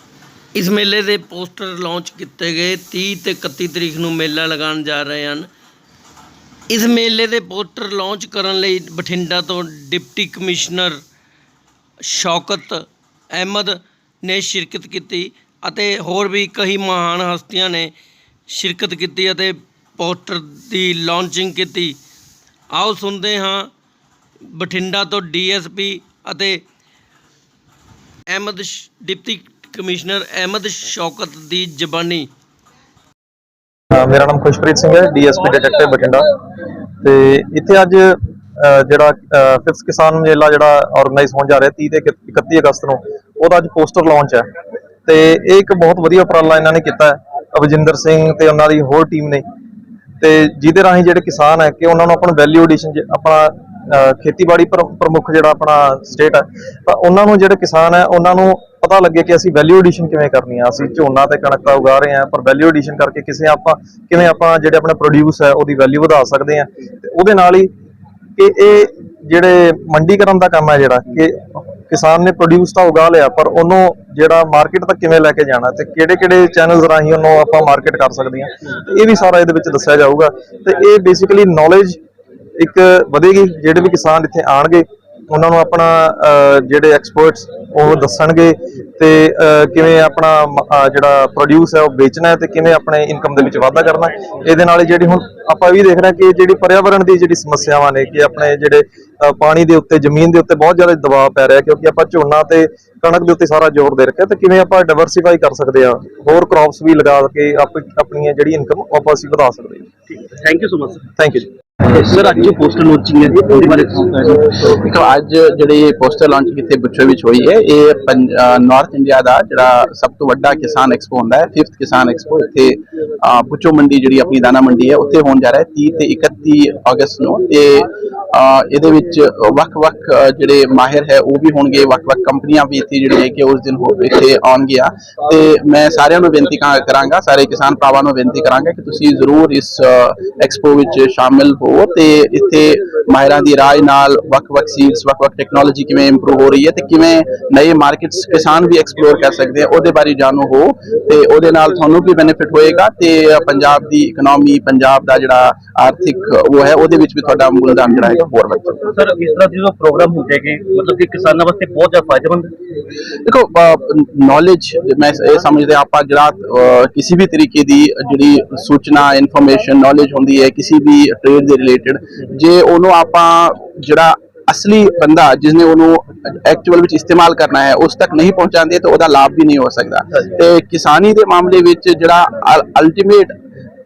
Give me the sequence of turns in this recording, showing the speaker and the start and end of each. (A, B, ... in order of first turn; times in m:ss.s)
0:00.6-0:05.5 A
0:06.7-0:11.0 A
0:12.1-0:17.9 A
0:18.5-0:22.0 A
0:22.7-0:23.7 A
0:24.5-0:26.6 A
0:28.3-0:32.3 A
0:33.9-0:36.3 B
0:37.0-0:44.4 B
0:45.1-0:49.4 B
0:50.2-1:07.7 B
1:08.4-1:22.0 B
1:22.6-1:49.9 B
1:50.1-1:51.2 C
1:51.2-1:51.5 B
1:51.9-1:54.8 C
1:54.8-2:38.9 D
2:38.9-2:42.5 C
2:43.3-3:03.3 D